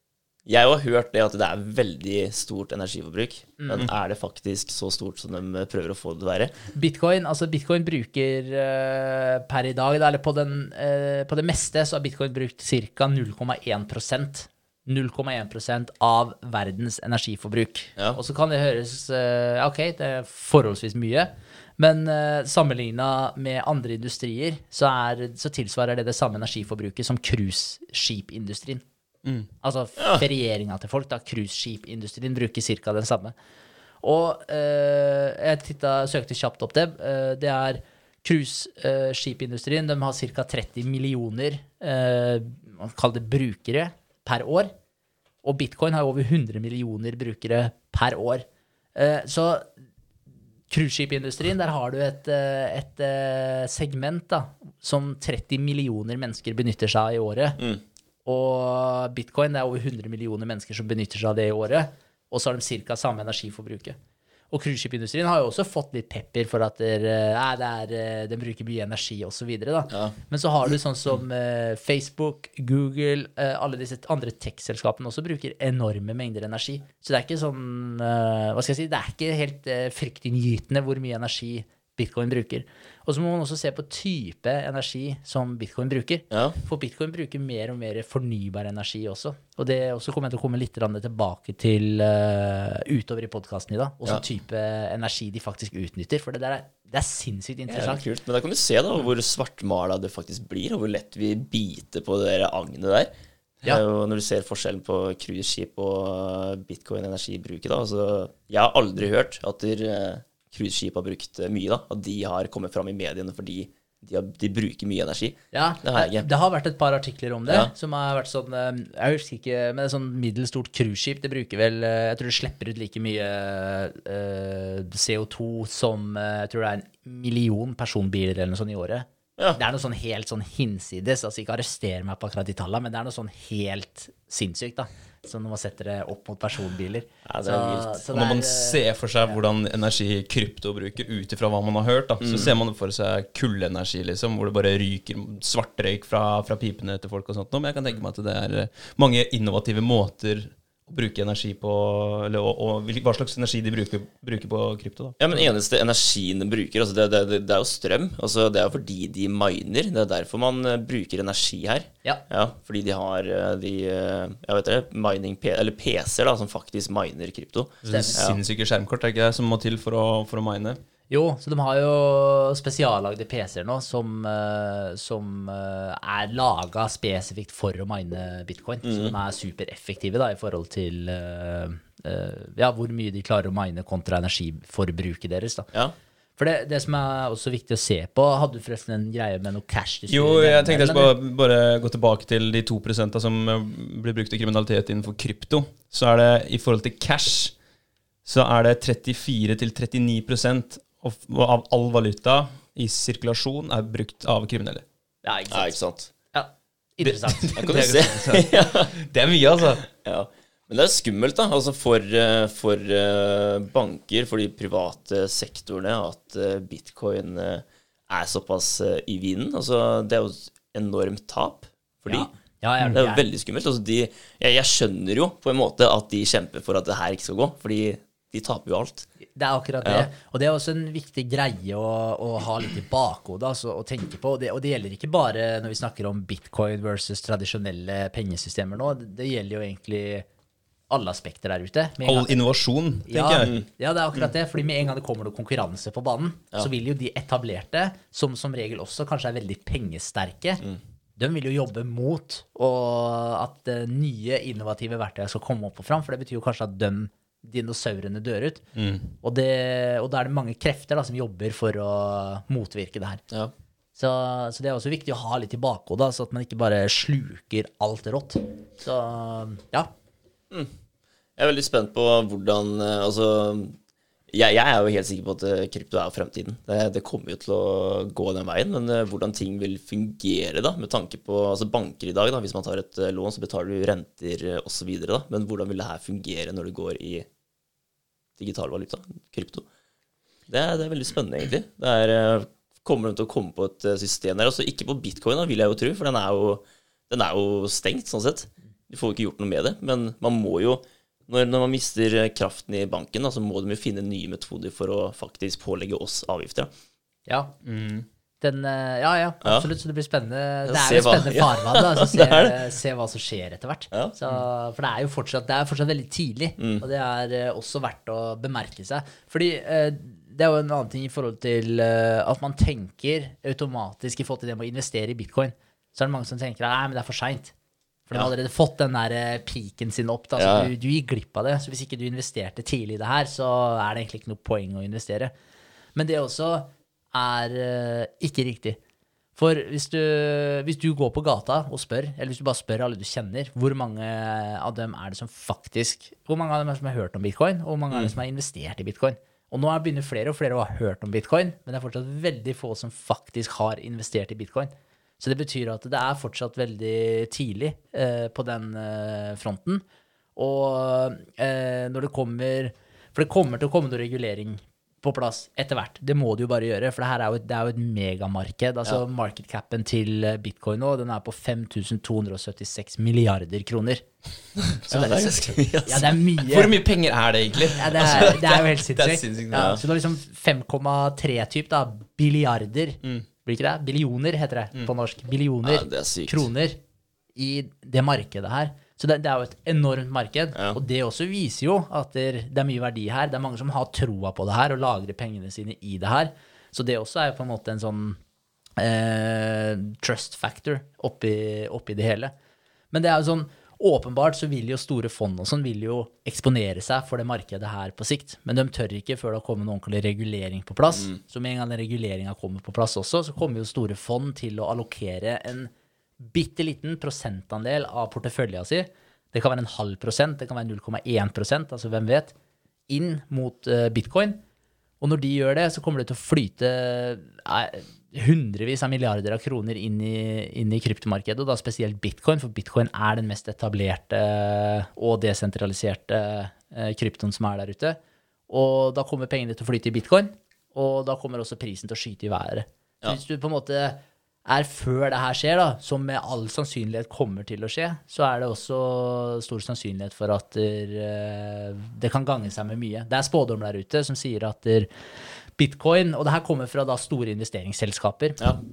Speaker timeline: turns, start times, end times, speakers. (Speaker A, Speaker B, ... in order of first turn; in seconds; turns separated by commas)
Speaker A: 0.5-6.5, Speaker B: 3.6-3.9, Speaker B: 6.7-28.8, Speaker B: 29.6-33.3, Speaker B: 34.0-44.7, Speaker B: 45.4-49.7, Speaker B: 50.7-57.6, Speaker B: 58.2-64.0, Speaker B: 64.5-98.0, Speaker A: 86.3-86.6, Speaker A: 97.7-103.1, Speaker A: 103.6-116.3, Speaker B: 115.5-139.4, Speaker A: 137.2-138.0, Speaker C: 138.1-155.4, Speaker A: 142.2-142.5, Speaker A: 155.2-168.4, Speaker C: 167.8-170.8, Speaker B: 167.9-168.2, Speaker B: 171.1-185.7, Speaker A: 178.8-179.1, Speaker B: 186.4-191.1, Speaker C: 190.1-197.5, Speaker C: 198.2-204.8, Speaker B: 205.2-205.7, Speaker A: 205.5-206.1, Speaker B: 206.3-208.0, Speaker C: 207.0-209.9, Speaker A: 207.6-208.9, Speaker A: 210.0-222.3, Speaker B: 222.1-223.2, Speaker A: 222.9-229.1, Speaker B: 229.3-240.2, Speaker A: 229.8-230.1, Speaker B: 240.9-242.3, Speaker C: 242.0-243.6, Speaker B: 243.1-250.6, Speaker B: 251.2-258.6, Speaker C: 258.8-259.1, Speaker B: 259.2-263.2, Speaker B: 263.9-269.9, Speaker A: 271.4-273.8, Speaker A: 274.3-287.3, Speaker A: 288.4-289.6, Speaker A: 290.5-306.7, Speaker B: 307.3-307.5, Speaker C: 307.6-308.1, Speaker B: 308.4-327.5, Speaker A: 309.4-309.7, Speaker A: 310.6-312.6, Speaker A: 316.6-316.8, Speaker B: 328.1-335.3, Speaker A: 330.4-330.7, Speaker B: 335.9-338.8, Speaker B: 339.4-359.8, Speaker B: 360.4-374.0, Speaker A: 374.6-376.2, Speaker B: 374.9-376.8, Speaker C: 376.4-379.8, Speaker B: 377.7-386.8, Speaker A: 379.5-379.8, Speaker A: 385.6-386.5, Speaker B: 387.3-398.2, Speaker B: 398.8-402.3, Speaker B: 402.9-422.3, Speaker B: 422.9-424.4, Speaker B: 425.0-438.0, Speaker B: 438.5-454.9, Speaker B: 455.6-458.4